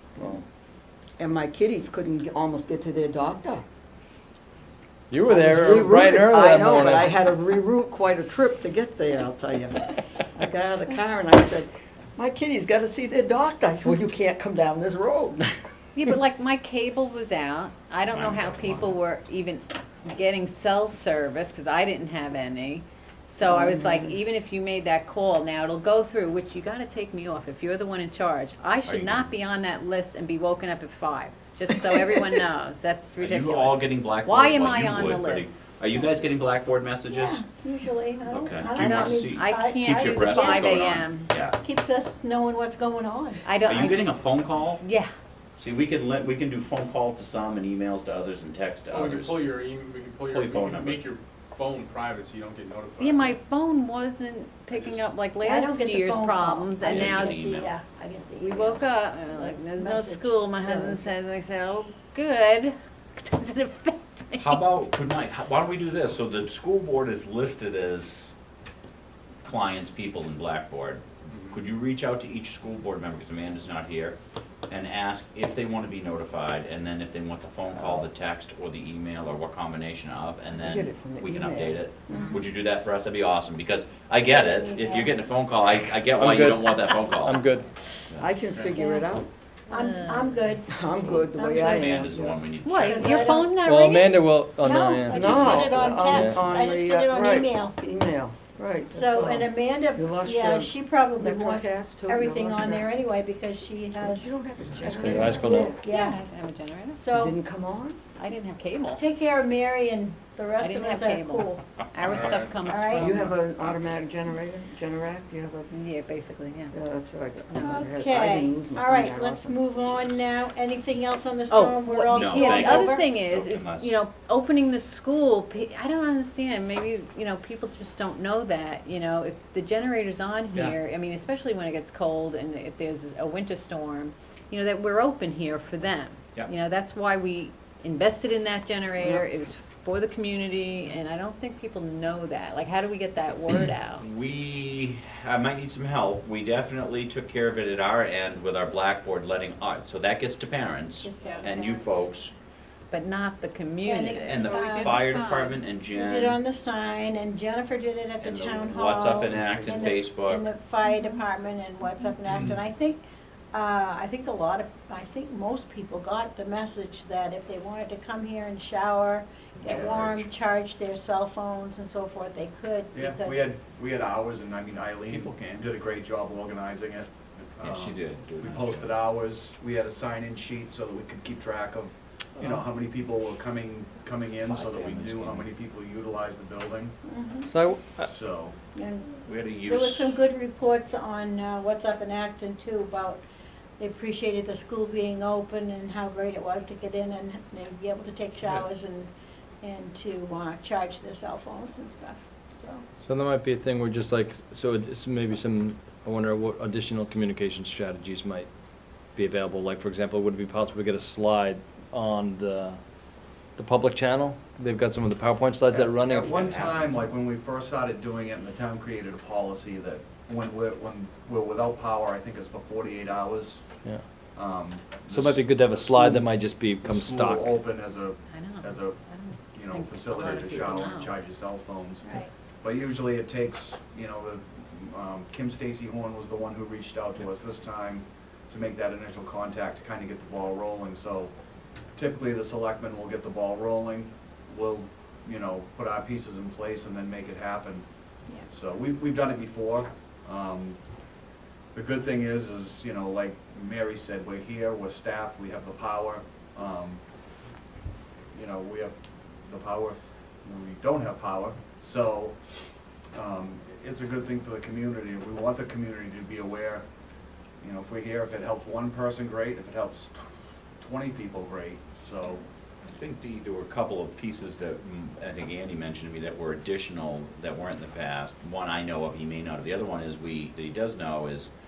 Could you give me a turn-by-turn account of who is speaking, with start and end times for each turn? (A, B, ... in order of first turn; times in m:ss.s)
0:00.2-0:00.4 A
0:01.2-0:03.6 B
0:05.1-0:07.2 A
0:05.2-0:15.5 B
0:15.9-0:36.2 C
0:18.1-0:18.9 D
0:23.4-0:24.2 B
0:28.9-0:29.3 D
0:33.2-0:37.4 D
0:37.1-0:43.9 E
0:38.3-0:41.6 D
0:38.7-0:41.3 C
0:43.4-0:44.1 C
0:43.6-0:44.8 D
0:44.8-0:45.1 C
0:45.6-0:49.5 D
0:48.9-0:53.4 F
0:50.3-0:51.1 D
0:53.0-0:57.4 C
0:54.7-0:55.0 F
0:55.4-1:01.1 E
0:56.8-0:57.7 D
0:58.4-1:04.6 C
1:04.4-1:08.3 D
1:09.4-1:14.2 D
1:14.7-1:27.4 D
1:20.5-1:22.4 B
1:24.3-1:25.2 E
1:26.2-1:27.7 A
1:28.2-1:29.3 B
1:28.6-1:29.1 E
1:29.7-1:32.1 E
1:29.7-1:30.3 C
1:30.7-1:32.4 B
1:31.0-1:33.3 D
1:32.6-1:34.2 C
1:32.8-1:33.6 E
1:33.6-1:35.6 A
1:34.6-1:37.8 E
1:35.1-1:43.0 B
1:35.3-1:35.9 D
1:36.1-1:36.4 A
1:38.9-1:46.2 E
1:44.0-1:45.8 B
1:44.9-1:45.7 A
1:45.7-1:47.0 C
1:47.0-1:47.4 E
1:47.1-1:48.0 B
1:48.2-1:49.0 C
1:49.0-1:51.6 E
1:50.6-1:53.3 C
1:52.0-1:52.6 F
1:52.7-1:53.2 E
1:53.0-1:55.8 B
1:55.7-1:56.7 C
1:56.7-1:59.8 B
1:57.6-2:03.1 E
2:01.5-2:24.0 C
2:02.1-2:03.9 D
2:24.0-2:32.3 D
2:31.0-2:32.0 E
2:31.2-2:31.5 C
2:32.9-2:35.6 C
2:33.8-2:35.2 E
2:34.2-2:36.4 D
2:35.9-2:43.0 E
2:38.2-2:40.5 D
2:39.4-2:40.0 G
2:40.8-2:41.2 C
2:42.3-2:42.6 D
2:43.5-2:53.5 E
2:49.6-2:50.0 D
2:49.6-2:50.3 G
2:52.9-3:07.0 G
2:55.1-2:55.6 D
2:57.6-2:58.9 D
3:04.5-3:05.5 D
3:07.1-3:07.5 E
3:07.5-3:08.1 A
3:08.1-3:08.6 G
3:08.8-3:13.2 E
3:09.2-3:10.2 D
3:13.8-3:19.1 E
3:19.6-3:22.8 E
3:23.0-3:28.5 A
3:29.1-3:32.8 A
3:33.6-3:36.6 A
3:35.7-3:43.6 G
3:36.3-3:36.9 D
3:44.4-3:46.2 G
3:45.1-3:47.6 A
3:46.8-3:49.0 G
3:48.3-3:51.1 C
3:49.5-3:52.1 G
3:52.0-3:52.3 E
3:52.6-4:01.3 G
4:02.0-4:07.9 G
4:08.5-4:10.8 G
4:11.7-4:17.0 G
4:18.3-4:19.0 G
4:19.5-4:22.4 G
4:23.1-4:26.9 G
4:27.6-4:30.3 G
4:30.8-4:32.4 G
4:32.9-4:41.5 D